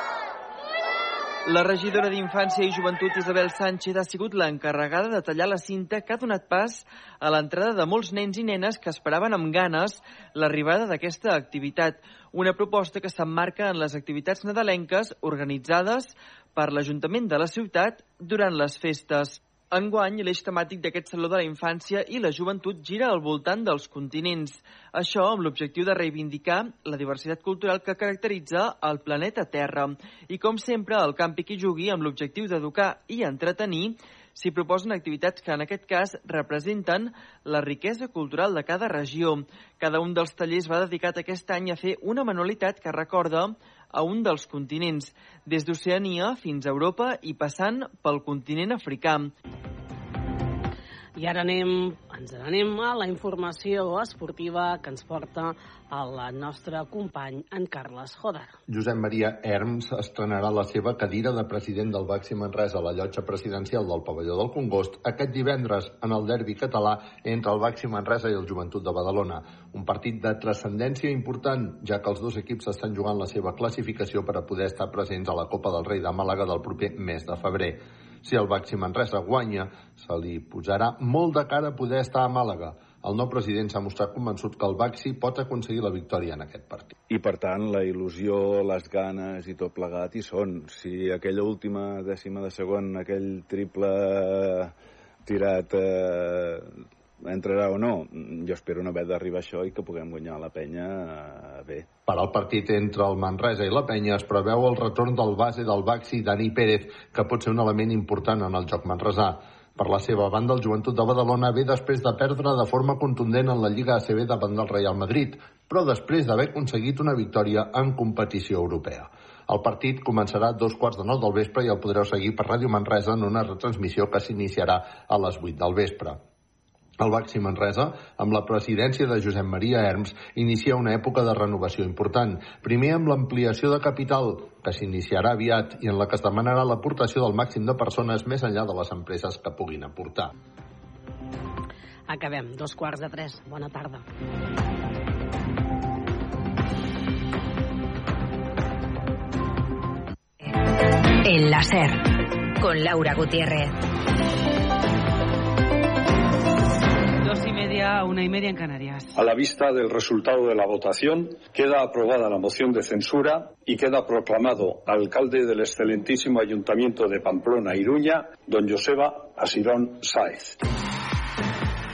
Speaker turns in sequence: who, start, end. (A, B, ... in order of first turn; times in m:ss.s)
0:01.5-0:49.3 A
0:51.2-0:58.6 B
0:58.7-1:26.9 C
1:27.1-1:34.7 D
1:35.3-1:36.7 D
1:37.2-1:41.9 D
1:42.1-2:06.2 C
2:07.0-2:20.3 C
2:22.1-2:24.0 B
2:31.2-2:32.0 E
2:32.6-2:33.7 E
2:37.2-2:39.2 F
2:39.2-2:50.6 G